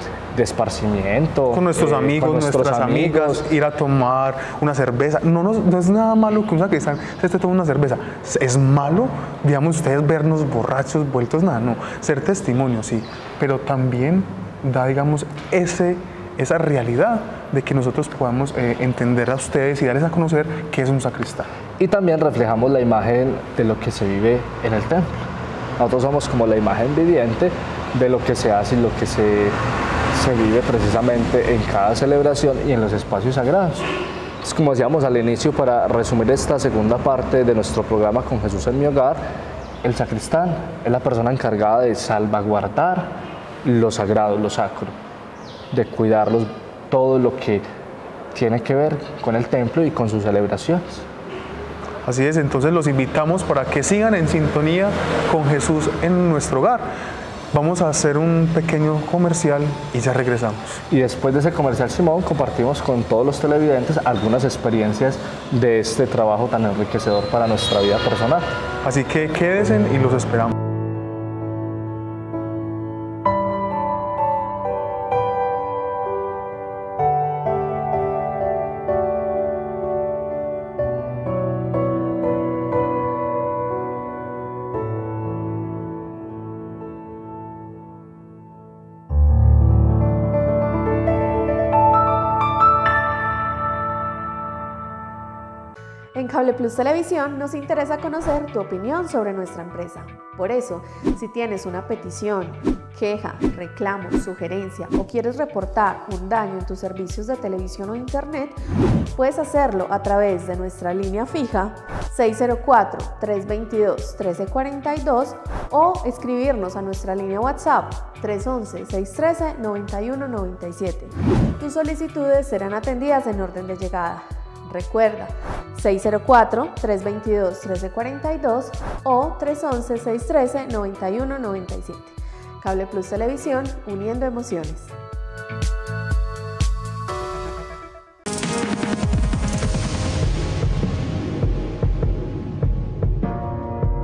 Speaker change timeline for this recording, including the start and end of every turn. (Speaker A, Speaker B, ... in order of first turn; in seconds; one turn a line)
Speaker A: 0.3-3.4
Speaker B: 1.5-21.5
Speaker A: 21.8-25.2
Speaker A: 25.8-29.6
Speaker A: 30.1-33.9
Speaker A: 34.4-39.2
Speaker A: 39.8-44.9
Speaker A: 45.7-47.6
Speaker A: 48.3-51.0
Speaker B: 52.0-56.9
Speaker B: 57.5-60.8
Speaker A: 60.9-68.5
Speaker B: 68.8-70.5
Speaker C: 96.1-108.5
Speaker C: 109.1-134.9